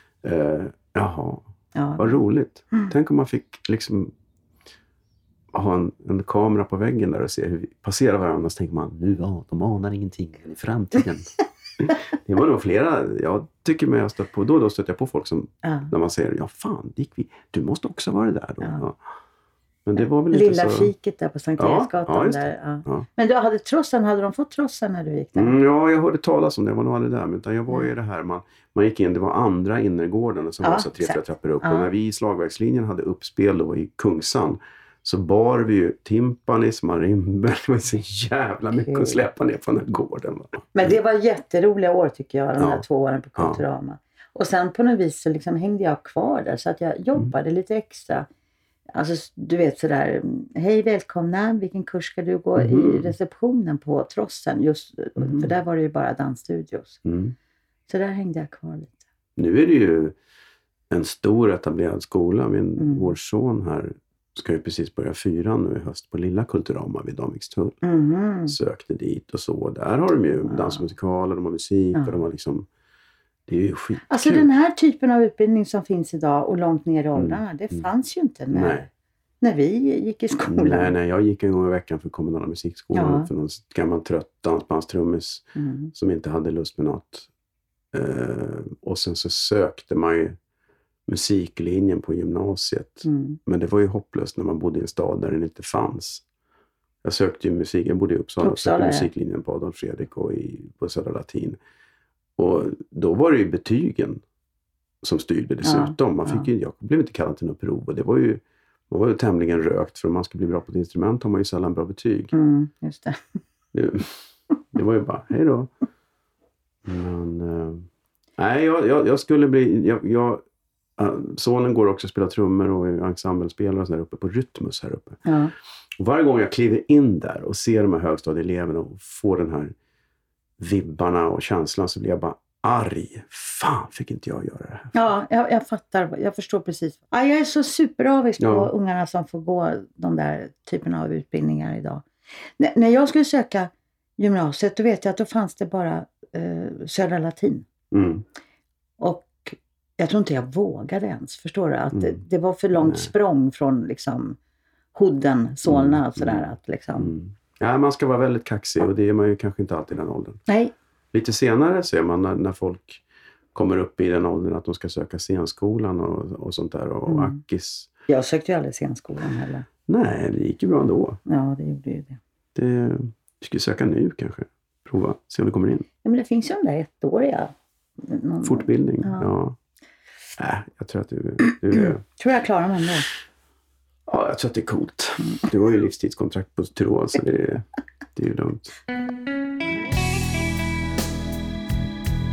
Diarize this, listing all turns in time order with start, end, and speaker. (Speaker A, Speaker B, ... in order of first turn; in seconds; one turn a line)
Speaker A: 0.2-1.4
Speaker B: 1.7-2.9
Speaker A: 2.0-4.1
Speaker A: 5.5-19.0
Speaker B: 15.6-15.9
Speaker A: 19.9-20.9
Speaker B: 20.3-25.6
Speaker A: 21.6-23.0
Speaker A: 25.3-41.0
Speaker B: 30.6-31.9
Speaker B: 38.7-39.2
Speaker B: 40.7-48.3
Speaker A: 42.6-42.8
Speaker A: 43.4-43.6
Speaker B: 48.9-57.0
Speaker A: 52.5-53.1
Speaker A: 55.2-55.5
Speaker A: 57.0-57.3
Speaker B: 57.9-58.9
Speaker A: 59.4-60.1
Speaker A: 60.9-67.8
Speaker B: 62.8-63.1
Speaker B: 67.8-68.6
Speaker A: 68.5-72.7
Speaker B: 70.5-70.8
Speaker A: 73.5-74.5
Speaker B: 74.1-78.9
Speaker A: 77.2-77.8
Speaker A: 78.5-78.9
Speaker B: 79.4-80.9
Speaker A: 80.5-87.3
Speaker B: 82.9-83.3
Speaker B: 85.5-85.9
Speaker A: 87.9-90.4
Speaker A: 91.1-96.2
Speaker B: 93.0-93.4
Speaker A: 97.0-101.6
Speaker B: 98.4-99.1
Speaker A: 102.4-104.2
Speaker A: 105.0-112.3
Speaker B: 105.6-106.5
Speaker B: 112.3-113.2
Speaker A: 113.7-114.2
Speaker A: 114.7-115.7
Speaker A: 116.8-117.8
Speaker A: 118.4-120.4
Speaker A: 121.0-125.2
Speaker B: 125.2-125.5
Speaker A: 126.0-129.7
Speaker A: 130.6-135.0
Speaker B: 134.9-142.0
Speaker A: 138.4-138.7
Speaker B: 142.6-147.7
Speaker A: 147.9-148.2
Speaker B: 149.0-154.4
Speaker A: 151.9-152.2
Speaker A: 152.8-153.1
Speaker B: 154.9-157.1
Speaker A: 155.7-156.4
Speaker A: 157.0-160.4
Speaker B: 160.5-160.7
Speaker A: 161.1-163.0
Speaker A: 163.5-167.9
Speaker B: 167.1-167.4
Speaker B: 168.1-169.7
Speaker A: 169.9-171.2
Speaker B: 171.3-172.2
Speaker A: 172.5-175.9
Speaker B: 176.0-179.3
Speaker A: 178.4-179.6
Speaker A: 180.4-182.0
Speaker B: 181.7-183.1
Speaker A: 184.1-188.7